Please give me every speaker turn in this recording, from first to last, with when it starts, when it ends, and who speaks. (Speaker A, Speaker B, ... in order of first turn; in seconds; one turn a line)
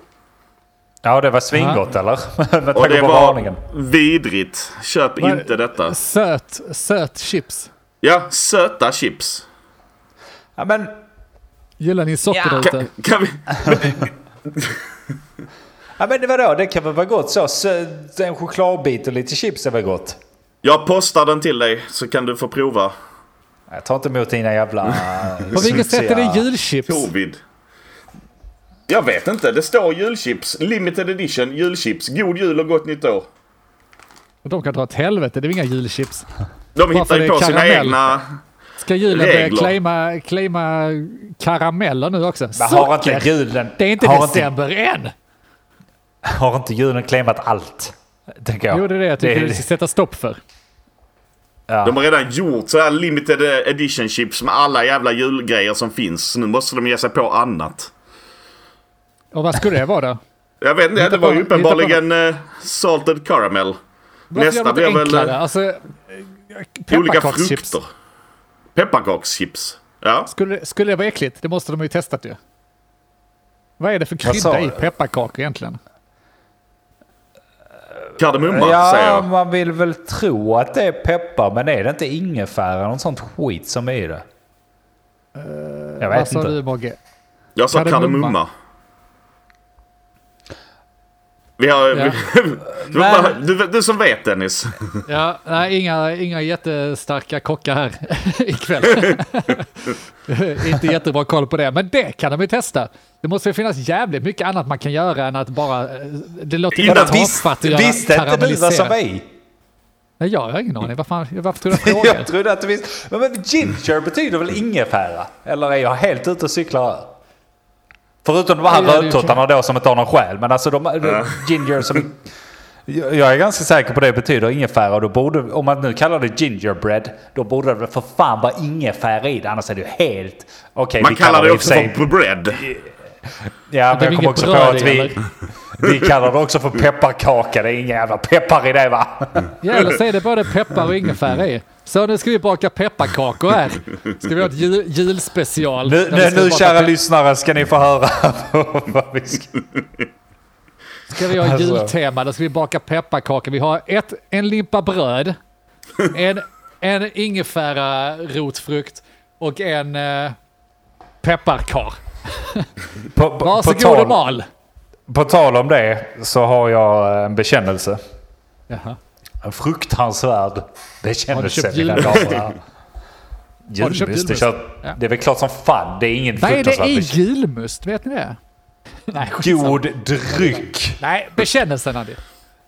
Speaker A: 1.0-3.6
Speaker B: 1.5-1.8
Speaker C: 2.7-5.9
Speaker B: 5.2-7.7
Speaker C: 8.0-9.4
Speaker A: 10.6-10.9
Speaker B: 11.8-12.9
Speaker C: 12.3-14.8
Speaker A: 16.0-20.2
Speaker C: 20.6-22.9
Speaker A: 23.7-26.5
Speaker B: 25.5-27.1
Speaker C: 26.9-27.4
Speaker C: 28.9-33.3
Speaker B: 34.4-36.3
Speaker C: 36.7-38.2
Speaker B: 36.9-38.0
Speaker B: 38.8-45.1
Speaker C: 39.1-39.8
Speaker A: 42.5-44.5
Speaker A: 46.2-49.6
Speaker B: 48.7-50.4
Speaker A: 51.7-52.0
Speaker C: 51.8-57.9
Speaker B: 59.3-60.2
Speaker C: 60.6-63.8
Speaker B: 61.0-62.0
Speaker B: 64.3-67.7
Speaker C: 64.3-65.4
Speaker C: 66.9-67.8
Speaker C: 68.7-70.3
Speaker B: 70.3-72.4
Speaker B: 73.8-75.8
Speaker A: 74.2-74.9
Speaker C: 78.2-79.3
Speaker A: 78.5-84.2
Speaker B: 85.3-87.0
Speaker A: 86.0-86.5
Speaker C: 87.6-88.5
Speaker B: 87.7-88.3
Speaker C: 91.6-95.0
Speaker B: 91.9-92.2
Speaker A: 92.8-93.4
Speaker B: 95.1-109.0
Speaker C: 106.8-107.2
Speaker A: 106.8-109.3
Speaker B: 110.2-112.3
Speaker A: 111.7-117.1
Speaker A: 118.2-122.2
Speaker B: 118.7-119.4
Speaker C: 121.1-121.4
Speaker A: 122.9-139.6
Speaker C: 131.0-132.6
Speaker B: 133.9-135.2
Speaker B: 139.6-146.9
Speaker A: 145.8-149.6
Speaker B: 151.1-155.4
Speaker A: 151.3-151.9
Speaker B: 156.0-160.3
Speaker B: 161.2-162.7
Speaker A: 163.1-164.2
Speaker B: 163.4-164.5
Speaker A: 165.1-168.0
Speaker B: 168.7-169.0
Speaker A: 169.4-172.6
Speaker B: 171.3-172.4
Speaker A: 173.7-177.2
Speaker B: 173.8-175.0
Speaker B: 176.4-178.4
Speaker B: 179.1-179.8
Speaker A: 179.4-181.0
Speaker B: 180.4-182.2